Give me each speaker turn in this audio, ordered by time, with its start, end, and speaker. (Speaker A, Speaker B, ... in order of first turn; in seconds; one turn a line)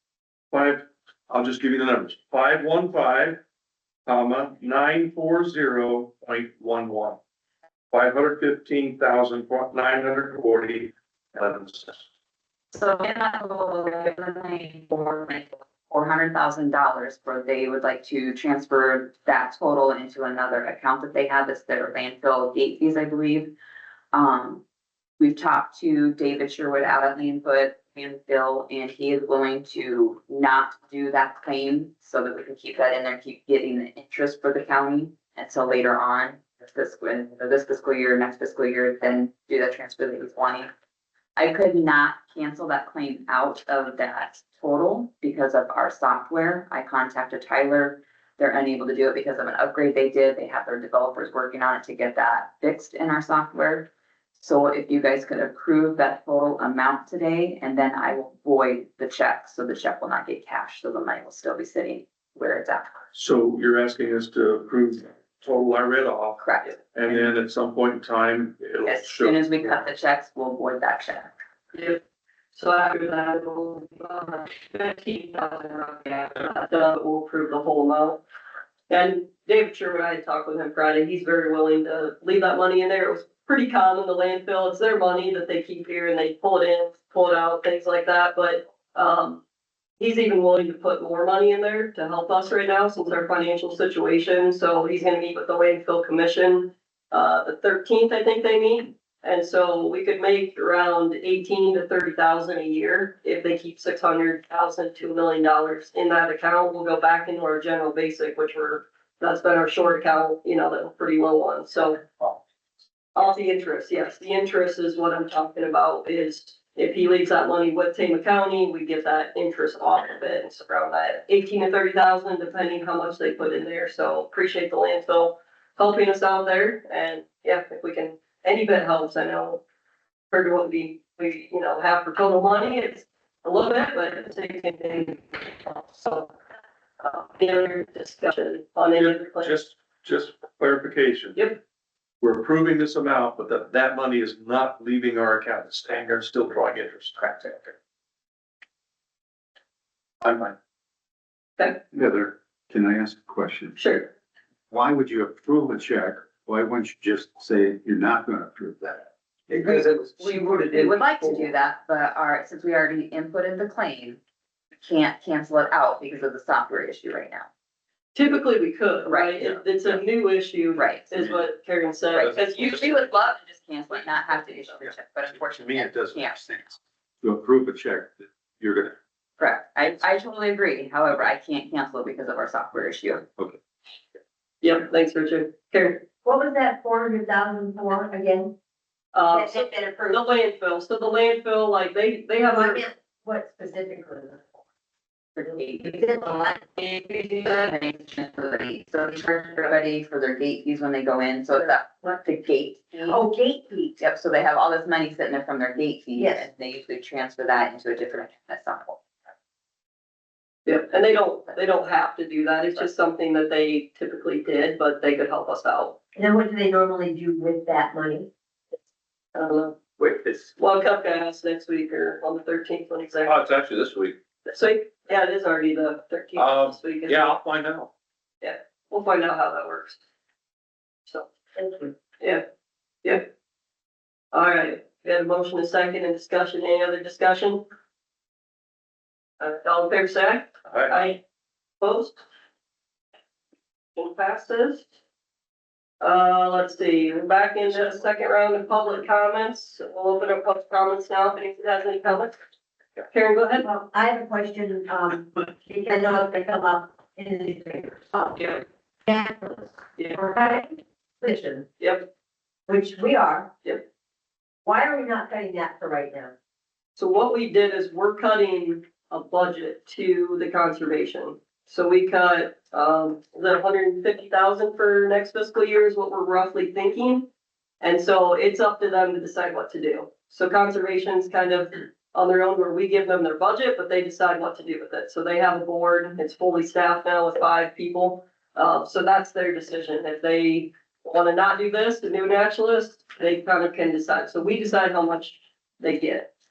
Speaker A: 0.5-3.4
Speaker A: 4.0-7.2
Speaker A: 7.9-12.0
Speaker B: 12.7-23.5
Speaker B: 24.1-24.6
Speaker B: 25.2-40.7
Speaker B: 41.4-63.0
Speaker A: 63.1-66.4
Speaker B: 66.4-67.3
Speaker A: 66.9-69.4
Speaker B: 68.8-71.3
Speaker C: 71.7-72.0
Speaker C: 72.5-78.2
Speaker C: 78.9-89.4
Speaker C: 90.0-112.3
Speaker C: 113.1-129.6
Speaker C: 130.3-136.3
Speaker C: 137.0-139.6
Speaker A: 138.9-141.5
Speaker A: 142.2-147.2
Speaker B: 147.2-147.7
Speaker A: 150.2-150.5
Speaker D: 151.9-153.7
Speaker C: 153.8-154.1
Speaker D: 154.7-159.1
Speaker E: 159.5-161.5
Speaker B: 160.2-164.2
Speaker B: 164.8-167.5
Speaker C: 168.1-173.3
Speaker B: 169.0-169.6
Speaker B: 170.7-171.1
Speaker B: 172.1-176.6
Speaker D: 175.5-178.9
Speaker B: 179.4-183.2
Speaker C: 184.6-186.0
Speaker F: 186.2-188.5
Speaker C: 189.1-192.8
Speaker F: 189.3-190.2
Speaker F: 192.5-194.4
Speaker B: 195.3-196.0
Speaker F: 195.8-196.8
Speaker B: 196.8-203.2
Speaker F: 203.0-204.0
Speaker B: 204.0-209.0
Speaker F: 206.2-206.5
Speaker C: 210.7-215.9
Speaker F: 216.2-218.3
Speaker C: 219.3-219.8
Speaker E: 220.0-220.5
Speaker C: 220.6-223.4
Speaker A: 223.2-223.6
Speaker E: 223.3-224.2
Speaker C: 224.5-227.4
Speaker A: 226.3-227.9
Speaker C: 228.4-230.0
Speaker C: 231.1-232.4
Speaker C: 234.3-237.6
Speaker C: 239.4-241.2
Speaker A: 240.7-241.0
Speaker C: 241.8-242.2
Speaker C: 243.9-244.9
Speaker C: 246.0-252.3
Speaker C: 253.1-253.7
Speaker F: 253.6-258.5
Speaker C: 258.3-258.6
Speaker F: 259.0-261.6
Speaker C: 261.8-262.1
Speaker F: 262.7-263.5
Speaker F: 264.6-266.3
Speaker C: 266.9-277.3
Speaker C: 277.8-296.3